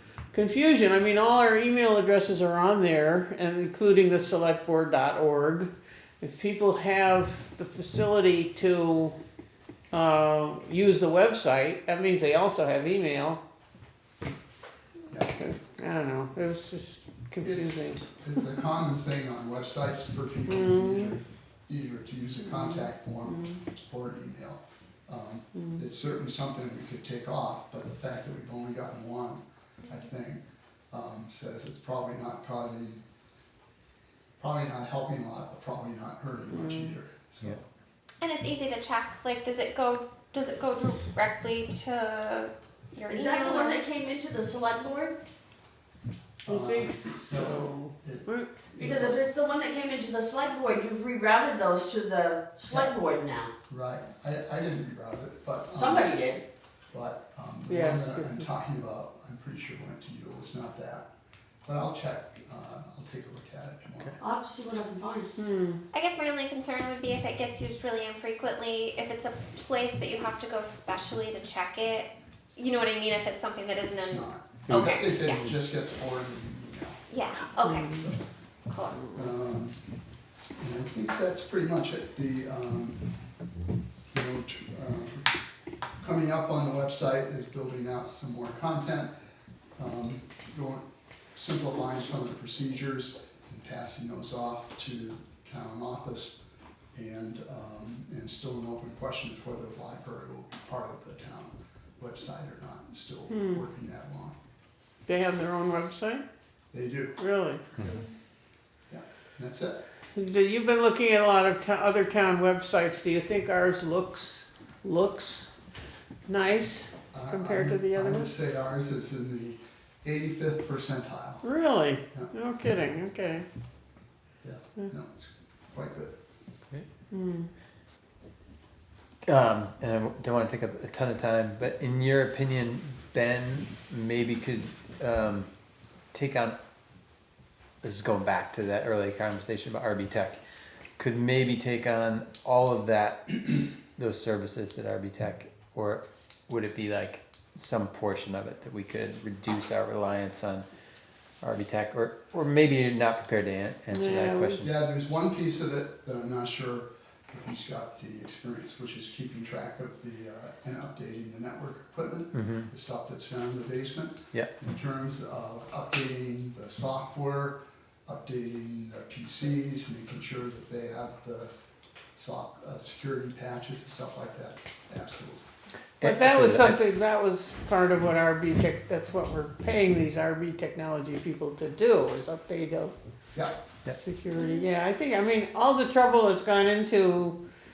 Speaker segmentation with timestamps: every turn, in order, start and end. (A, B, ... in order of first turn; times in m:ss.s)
0:00.3-0:09.2 A
0:09.9-0:13.4 A
0:15.1-0:18.0 A
0:17.4-0:33.0 B
0:20.5-0:21.2 A
0:22.4-0:23.6 A
0:25.5-0:25.8 A
0:34.4-0:37.6 B
0:36.5-0:37.0 A
0:38.2-0:43.8 C
0:43.1-0:45.2 D
0:46.4-0:48.5 A
0:46.4-0:49.2 B
0:48.8-0:53.5 D
0:52.7-0:53.0 B
0:53.7-0:56.2 B
0:55.7-0:56.4 D
0:56.9-1:01.1 B
0:57.7-0:58.4 A
1:01.6-1:04.2 B
1:04.2-1:05.3 D
1:05.4-1:05.8 A
1:05.9-1:15.5 C
1:14.0-1:17.0 B
1:17.1-1:18.0 C
1:17.6-1:18.0 A
1:17.9-1:18.2 B
1:18.7-1:19.1 C
1:19.1-1:19.8 B
1:20.6-1:23.0 B
1:24.1-1:25.3 B
1:26.0-1:29.1 B
1:29.8-1:30.8 B
1:31.3-1:36.4 B
1:36.9-1:44.4 B
1:43.3-1:43.6 A
1:45.0-1:46.2 A
1:46.7-1:47.2 B
1:47.2-1:47.6 A
1:48.9-1:49.8 B
1:50.2-1:55.5 A
1:56.3-1:58.3 A
1:57.1-2:01.4 B
2:01.4-2:03.4 A
2:04.4-2:06.2 B
2:07.1-2:07.5 A
2:09.2-2:15.5 E
2:16.1-2:16.5 E
2:17.8-2:20.4 E
2:21.0-2:30.6 E
2:31.4-2:34.7 E
2:33.9-2:34.6 A
2:34.6-2:55.4 B
2:42.3-2:42.7 E
2:56.0-2:56.8 E
2:56.0-3:02.9 A
3:03.9-3:07.4 A
3:04.4-3:04.6 C